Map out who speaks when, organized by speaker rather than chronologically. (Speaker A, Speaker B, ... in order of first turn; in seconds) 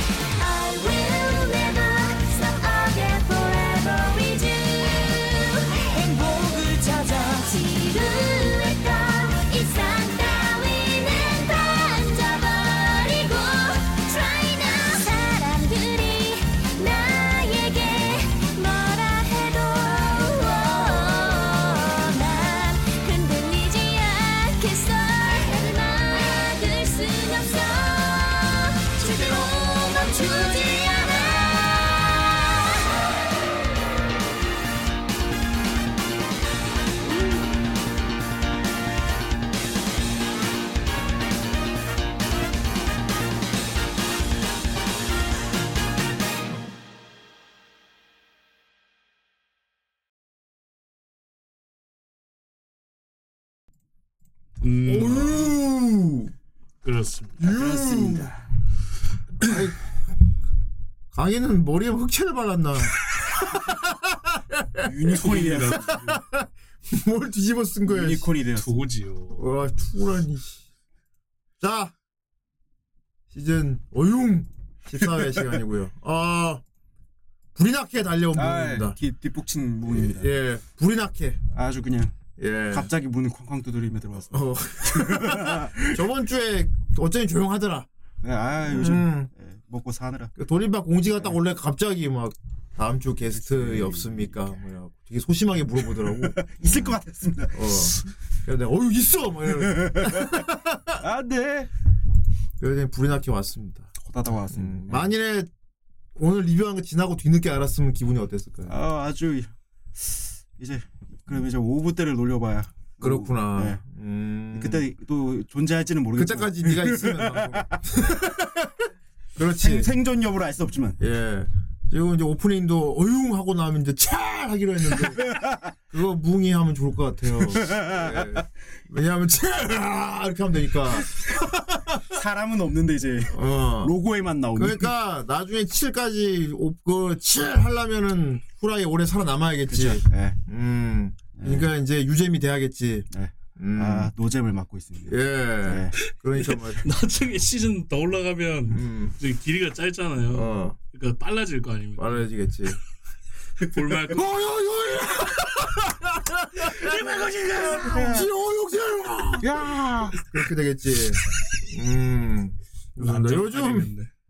Speaker A: 0.4-4.8, 7.7-31.6
Speaker B: 0.7-2.3, 3.7-4.0, 4.8-5.2, 5.8-7.9, 29.0-29.7
Speaker C: 54.6-55.6, 56.8-58.2, 65.2-66.2, 68.6-69.4, 146.8-152.3, 153.7-154.4, 156.9-157.5, 163.0-164.1
Speaker D: 54.9-56.3, 57.4-58.3, 59.4-59.8, 61.1-63.0, 63.6-64.9, 65.9-68.3, 69.4-70.6, 71.6-71.9, 73.3-76.6, 77.6-79.0, 79.9-81.4, 82.4-82.9, 84.3-87.9, 88.7-89.3, 90.4-97.0, 97.5-101.0, 102.6-103.9, 104.5-105.5, 106.2-108.8, 113.0-114.9, 116.2-118.7, 119.4-119.9, 121.0-125.3, 125.9-132.0, 133.3-133.9, 134.6-144.1, 145.1-146.8, 148.7-149.2, 150.3-150.8, 152.0-152.8, 154.1-159.5, 160.3-163.9
Speaker E: 57.7-58.2, 64.9-65.9, 67.9-68.8, 78.4-80.3, 81.5-82.1, 82.7-85.9, 88.2-90.3, 93.3-94.5, 96.0-97.7, 99.8-100.3, 101.0-101.7, 104.0-105.1, 108.7-113.8, 114.5-117.7, 119.5-121.0, 125.2-125.7, 127.6-128.3, 132.1-134.9, 139.7-140.4, 141.4-141.7, 143.1-145.9, 157.4-158.3, 159.4-160.2